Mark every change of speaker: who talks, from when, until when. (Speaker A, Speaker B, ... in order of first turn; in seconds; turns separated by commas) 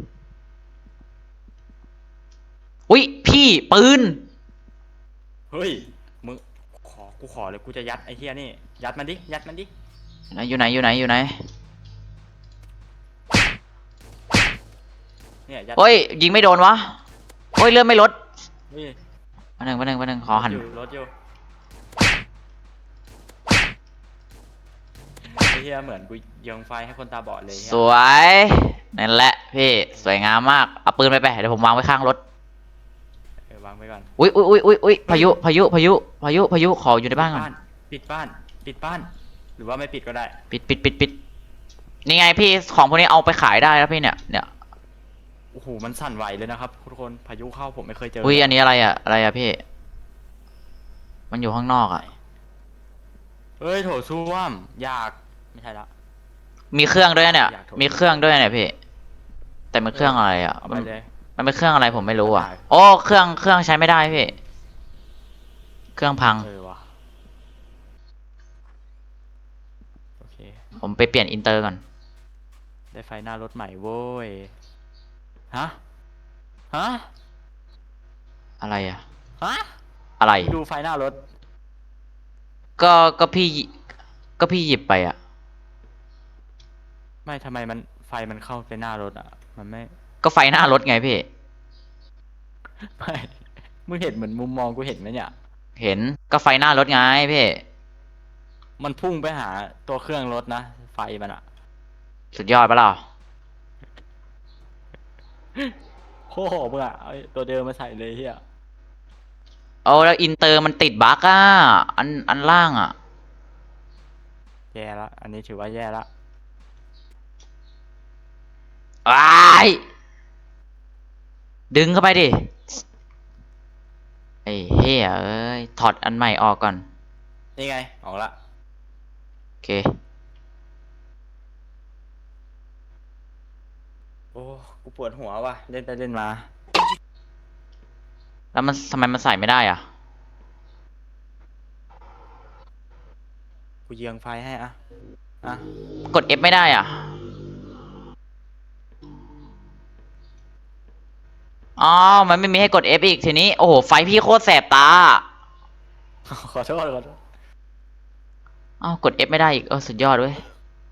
Speaker A: 2.9-4.2, Speaker B: 5.5-9.7, Speaker A: 10.3-11.3, Speaker B: 15.5-16.0, Speaker A: 15.8-17.0, Speaker A: 17.6-18.1, Speaker B: 18.7-19.0, Speaker A: 19.6-20.6, Speaker B: 20.3-21.1, Speaker B: 25.3-27.9, Speaker A: 27.5-32.2, Speaker B: 33.5-34.1, Speaker A: 34.2-37.5, Speaker B: 35.1-35.4, Speaker B: 37.1-40.4, Speaker A: 40.5-41.1, Speaker A: 42.0-44.5, Speaker B: 45.5-48.6, Speaker A: 48.2-49.6, Speaker A: 51.3-52.0, Speaker B: 53.6-55.9, Speaker A: 56.7-58.8, Speaker B: 57.2-58.2, Speaker A: 59.7-64.3, Speaker B: 59.9-61.1, Speaker B: 62.2-62.7, Speaker A: 66.0-66.5, Speaker B: 66.4-66.9, Speaker B: 70.2-70.6, Speaker A: 70.8-71.8, Speaker B: 72.9-74.5, Speaker B: 75.5-75.8, Speaker B: 76.7-77.1, Speaker A: 78.6-79.0, Speaker B: 79.4-79.7, Speaker A: 80.2-80.5, Speaker B: 80.4-81.2, Speaker A: 82.8-83.7, Speaker A: 84.4-85.2, Speaker B: 87.3-89.9, Speaker A: 90.2-91.2, Speaker B: 92.8-95.3, Speaker A: 95.8-97.6, Speaker B: 98.8-101.4, Speaker A: 102.3-103.0, Speaker B: 106.3-108.4, Speaker A: 109.8-113.0, Speaker B: 114.7-116.1, Speaker A: 119.1-119.8, Speaker A: 121.7-122.5, Speaker A: 124.5-126.8, Speaker B: 127.6-128.3, Speaker A: 129.6-129.9, Speaker B: 134.3-136.5, Speaker A: 138.5-139.8, Speaker B: 143.9-144.8, Speaker A: 146.1-147.2, Speaker A: 151.8-155.2, Speaker B: 156.3-157.2, Speaker A: 158.8-160.4